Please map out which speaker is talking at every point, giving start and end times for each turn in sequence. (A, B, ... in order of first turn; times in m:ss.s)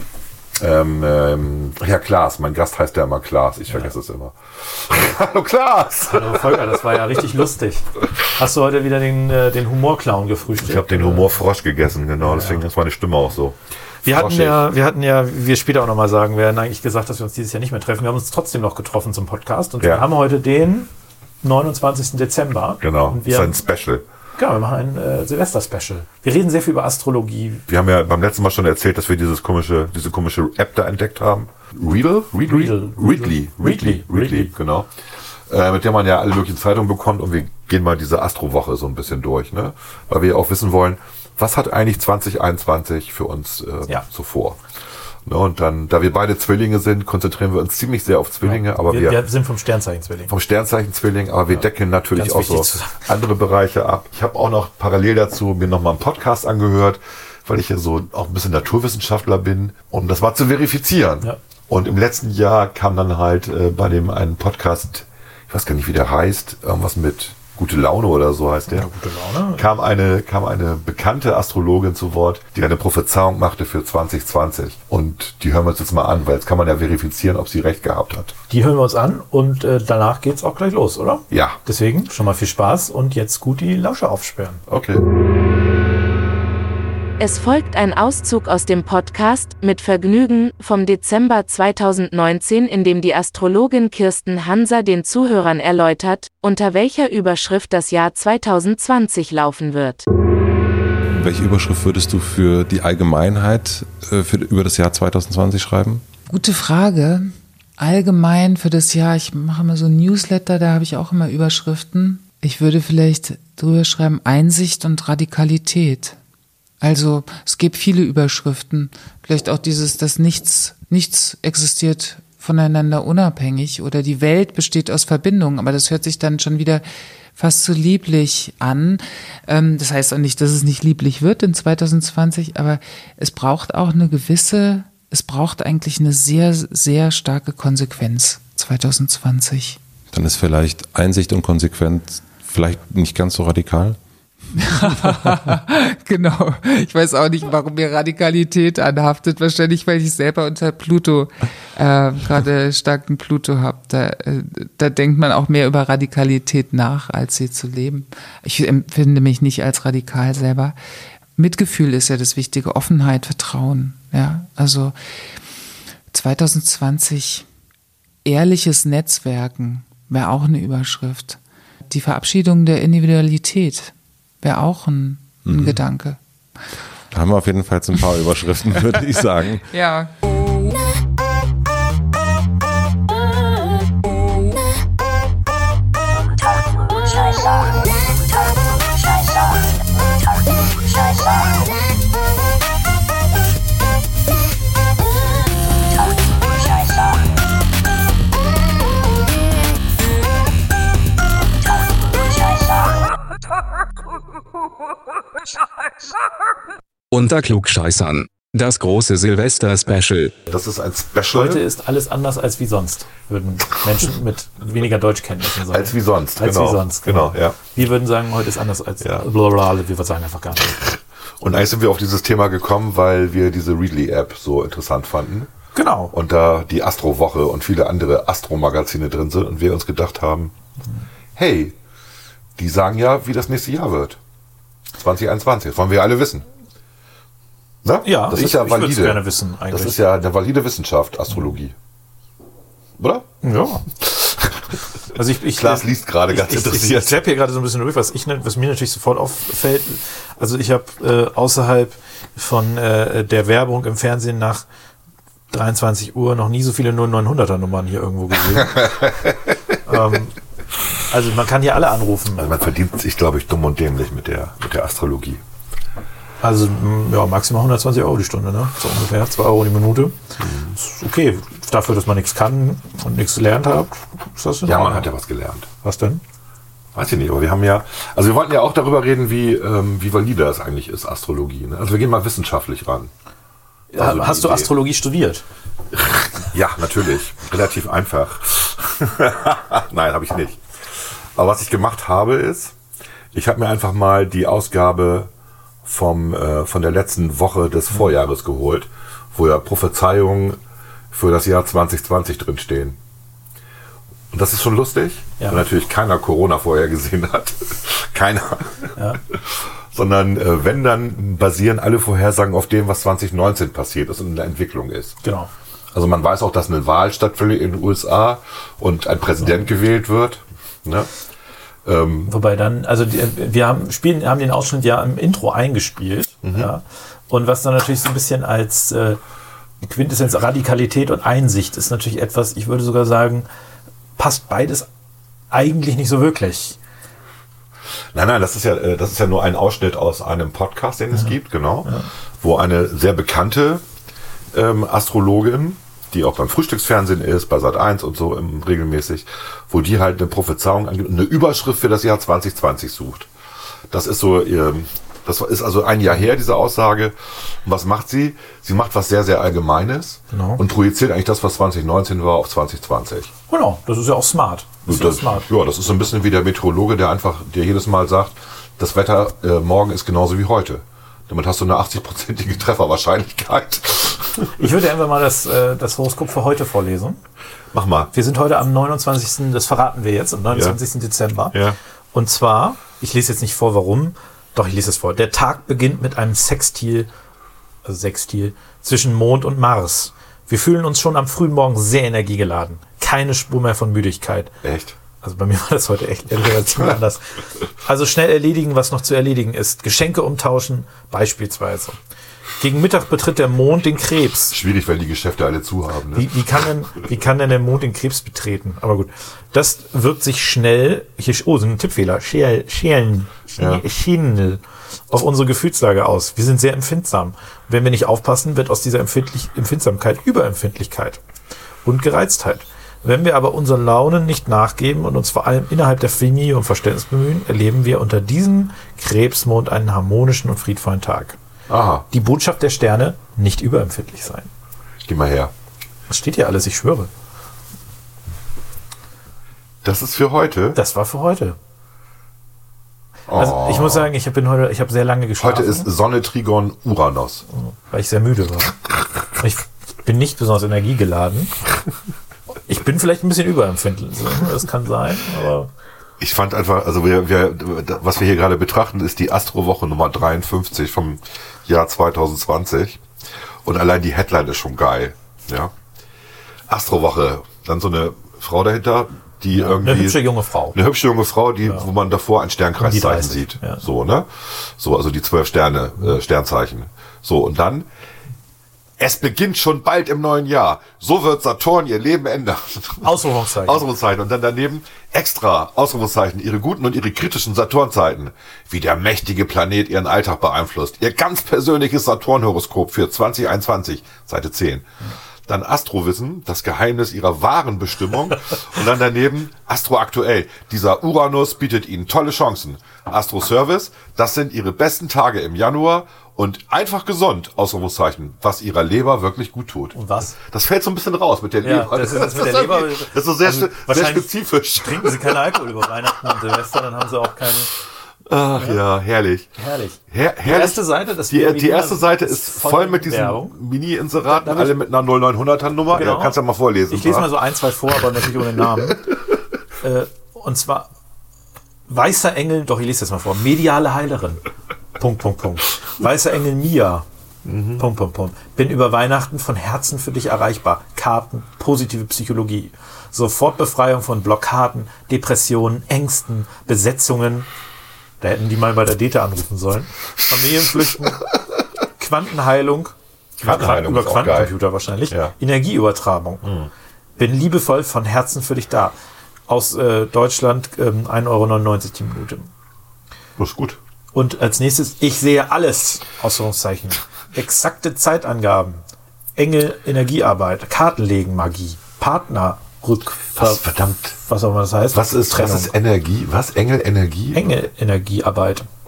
0:00.6-0:06.8 A
0:06.1-0:11.3 B
0:10.6-0:13.6 A
0:12.2-0:12.6 B
0:14.0-0:20.9 B
0:14.1-0:14.6 A
0:19.8-0:20.1 A
0:21.4-0:23.6 B
0:22.8-0:24.0 A
0:24.4-0:27.6 B
0:27.7-0:34.9 A
0:32.5-0:34.5 B
0:35.5-0:44.6 A
0:45.2-0:49.2 A
0:48.4-0:50.3 B
0:50.3-1:08.9 A
0:52.1-0:53.0 B
1:08.7-1:09.7 B
1:09.6-1:18.4 A
1:18.5-1:24.6 B
1:21.3-1:21.6 A
1:24.7-1:25.0 A
1:27.2-1:40.0 C
1:41.1-1:46.0 D
1:46.3-1:56.2 E
1:56.8-2:06.8 E
2:07.4-2:19.8 E
2:20.1-2:24.0 D
2:24.6-2:40.8 E
2:41.4-2:44.9 E
2:46.1-2:47.5 E
2:48.2-2:56.2 E
2:55.4-2:55.8 D
2:57.1-2:59.6 D
2:59.7-3:00.1 E
3:27.1-3:30.4 F
3:30.5-3:31.6 A
3:31.3-3:40.8 B
3:35.7-3:37.6 A
3:39.0-3:39.3 A
3:41.4-3:45.5 A
3:45.7-3:46.1 B
3:46.1-3:50.5 A
3:51.4-3:51.8 A
3:52.6-3:54.2 A
3:55.0-3:56.5 A
3:57.8-4:01.8 A
3:58.0-4:00.0 B
4:03.0-4:03.3 A
4:03.4-4:03.8 B
4:04.0-4:04.6 A
4:05.1-4:14.6 B
4:05.5-4:07.3 A
4:15.5-4:19.1 B
4:19.8-4:20.3 B
4:21.1-4:22.5 B
4:22.4-4:25.4 A
4:26.4-4:30.2 B
4:30.4-4:30.8 A
4:30.8-4:35.1 B
4:34.6-4:35.7 A
4:35.8-4:36.2 B
4:37.0-4:43.1 A
4:43.9-4:45.4 B
4:44.0-4:44.7 A
4:46.4-4:50.6 A
4:51.4-4:52.8 A
4:53.3-4:55.3 A
4:55.8-5:00.6 A
5:01.1-5:03.0 A
5:04.3-5:15.2 A
5:05.4-5:05.6 B
5:15.2-5:15.5 B
5:15.9-5:21.1 A
5:21.8-5:22.3 A
5:22.3-5:29.2 B
5:26.4-5:26.7 A
5:29.8-5:33.5 B
5:34.2-5:34.9 B
5:35.5-5:36.8 B
5:38.1-5:43.8 A
5:41.1-5:42.1 B
5:44.5-5:53.3 A
5:53.9-6:03.3 A
6:00.3-6:00.6 B
6:03.5-6:05.4 B
6:04.9-6:14.6 A
6:14.6-6:17.2 B
6:17.7-6:18.1 A
6:18.1-6:21.6 B
6:20.5-6:20.8 A
6:21.5-6:21.8 A
6:22.1-6:27.1 B
6:27.8-6:34.5 B
6:34.6-6:35.0 A
6:35.2-6:37.2 B
6:37.8-6:42.0 B
6:42.6-6:44.6 B
6:44.5-6:46.3 A
6:46.1-7:01.2 B
6:53.6-6:53.8 A
7:01.8-7:11.4 B
7:11.7-7:12.1 A
7:12.1-7:14.5 B
7:15.0-7:15.5 A
7:16.1-7:17.1 B
7:19.8-7:20.8 A
7:20.7-7:21.6 B
7:23.3-7:24.1 A
7:23.3-7:25.9 B
7:25.4-7:27.4 A
7:27.6-7:28.8 B
7:29.4-7:31.5 B
7:32.7-7:35.7 B
7:36.2-7:43.0 A
7:43.6-7:45.7 A
7:46.7-7:57.9 A
7:49.6-7:50.8 B
7:52.8-7:53.8 B
7:59.0-8:14.9 A
8:03.0-8:03.8 B
8:15.5-8:35.6 A
8:30.0-8:30.4 B
8:31.6-8:37.7 B
8:38.3-8:39.5 A
8:39.6-8:43.6 B
8:40.1-8:47.3 A
8:44.3-8:44.8 B
8:45.9-8:49.1 B
8:49.8-8:50.9 B
8:51.9-8:54.4 B
8:55.0-8:57.0 B
8:57.4-8:57.8 A
8:57.8-9:07.5 B
9:08.2-9:11.2 B
9:12.0-9:16.5 B
9:13.4-9:14.5 A
9:16.4-9:16.7 A
9:17.2-9:18.9 B
9:19.5-9:22.5 B
9:23.4-9:23.8 A
9:24.1-9:28.8 B
9:29.4-9:33.6 B
9:33.4-9:34.2 A
9:34.2-9:35.7 B
9:34.9-9:37.6 A
9:37.3-9:38.7 B